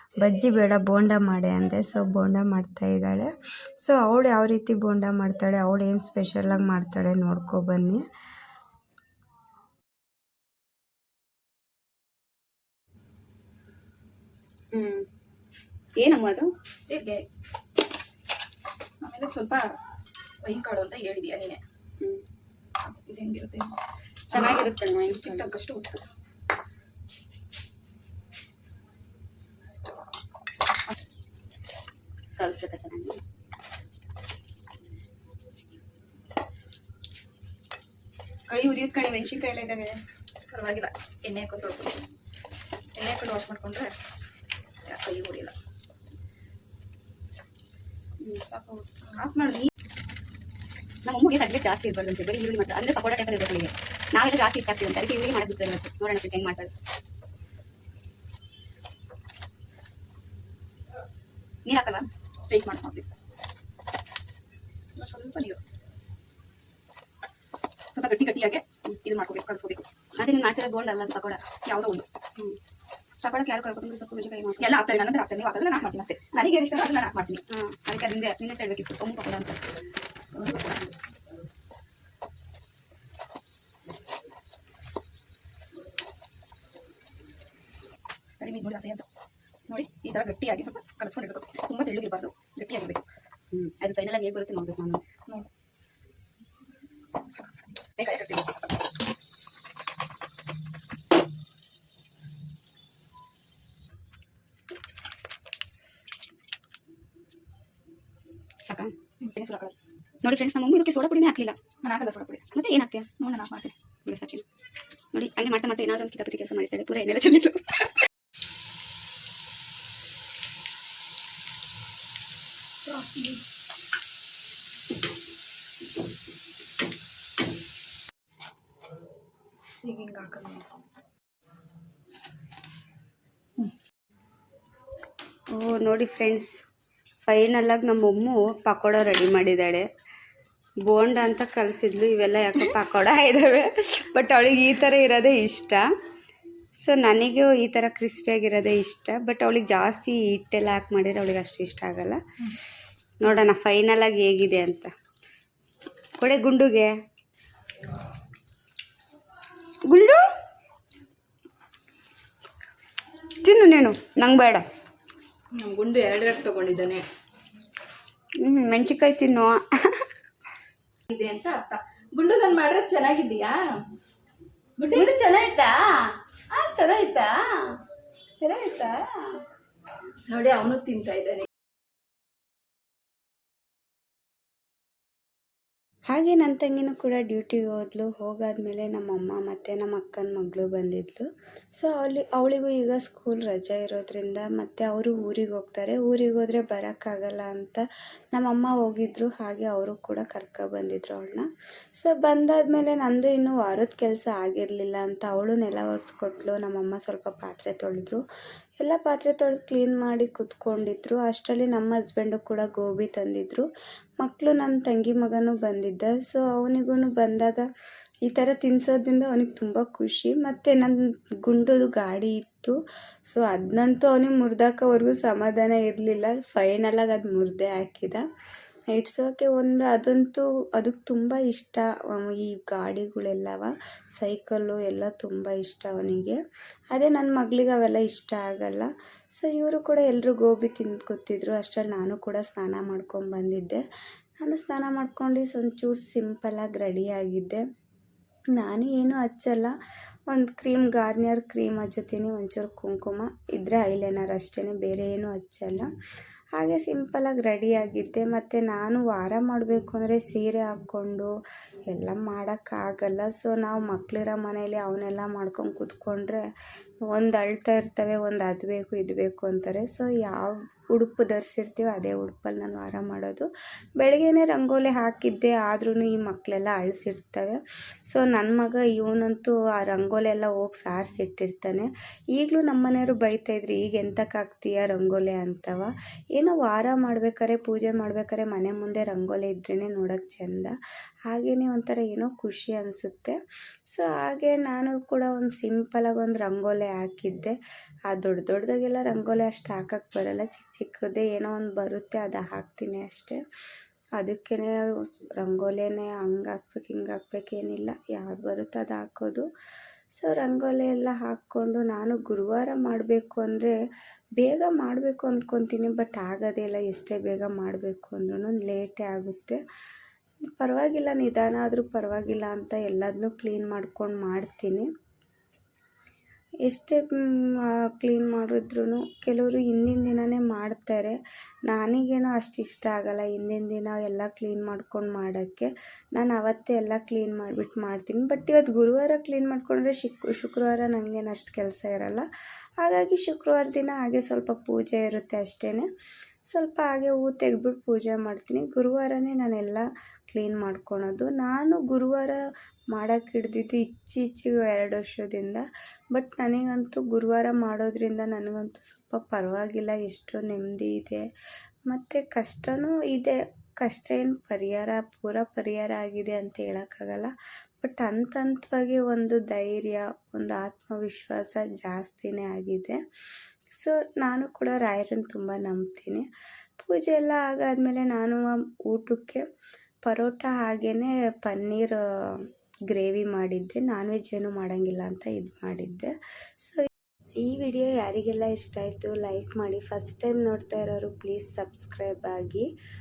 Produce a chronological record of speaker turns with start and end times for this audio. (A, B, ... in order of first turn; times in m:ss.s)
0:00.2-0:08.0 A
0:14.7-0:15.0 B
0:16.0-0:16.5 B
0:16.9-0:17.2 C
0:19.0-0:19.7 C
0:20.4-0:21.6 C
0:22.8-0:23.8 C
0:24.3-0:26.0 C
0:24.3-0:25.5 B
0:32.4-0:33.2 B
0:38.5-0:40.0 B
0:40.5-0:42.0 C
0:43.0-0:43.9 C
0:44.8-0:45.5 C
0:48.2-0:48.9 B
0:49.1-0:49.7 C
0:51.0-0:56.7 B
1:01.6-1:02.1 B
1:02.5-1:03.0 C
1:05.0-1:05.6 C
1:07.9-1:09.9 C
1:10.2-1:11.4 B
1:11.6-1:12.1 C
1:13.2-1:14.8 B
1:14.6-1:17.4 C
1:17.5-1:19.6 B
1:28.4-1:29.1 C
1:29.7-1:33.0 C
1:33.5-1:35.0 B
1:37.3-1:38.7 C
1:48.7-1:48.9 B
1:49.2-1:49.8 C
1:50.2-1:51.6 B
1:51.8-1:52.5 C
1:52.5-1:53.1 B
1:53.2-1:53.8 C
1:54.0-1:54.4 B
1:55.1-1:58.0 B
2:02.8-2:03.4 C
2:09.8-2:10.7 C
2:15.5-2:16.5 A
2:17.2-2:19.9 A
2:20.9-2:25.8 A
2:26.8-2:32.2 A
2:33.2-2:34.9 A
2:36.2-2:36.9 A
2:39.9-2:40.2 A
2:43.4-2:44.6 A
2:45.5-2:47.0 C
2:48.4-2:49.7 A
2:51.1-2:53.7 C
2:54.8-2:55.2 C
2:54.9-2:57.5 A
2:58.4-2:59.4 A
3:00.3-3:01.5 C
3:06.1-3:11.3 A
3:11.8-3:28.2 A
3:28.8-3:33.7 A
3:34.2-3:37.7 A
3:38.3-3:48.2 A
3:48.9-3:56.4 A
3:56.9-4:03.8 A
4:04.4-4:07.6 A
4:08.6-4:09.7 A
4:10.3-4:15.9 A
4:16.6-4:21.3 A
4:21.9-4:26.4 A
4:27.1-4:33.5 A
4:34.0-4:50.7 A
4:51.3-4:53.4 A
4:53.9-4:57.6 A
4:58.1-5:03.4 A
5:04.2-5:09.4 A
5:10.1-5:13.8 A
5:14.4-5:19.6 A
5:20.6-5:24.9 A
5:26.6-5:31.2 A
5:31.7-5:42.2 A
5:42.8-5:45.9 A
5:46.5-6:01.3 A
6:01.9-6:13.0 A
6:13.8-6:16.3 A
6:16.8-6:19.4 A
6:20.0-6:26.9 A
6:27.4-6:32.7 A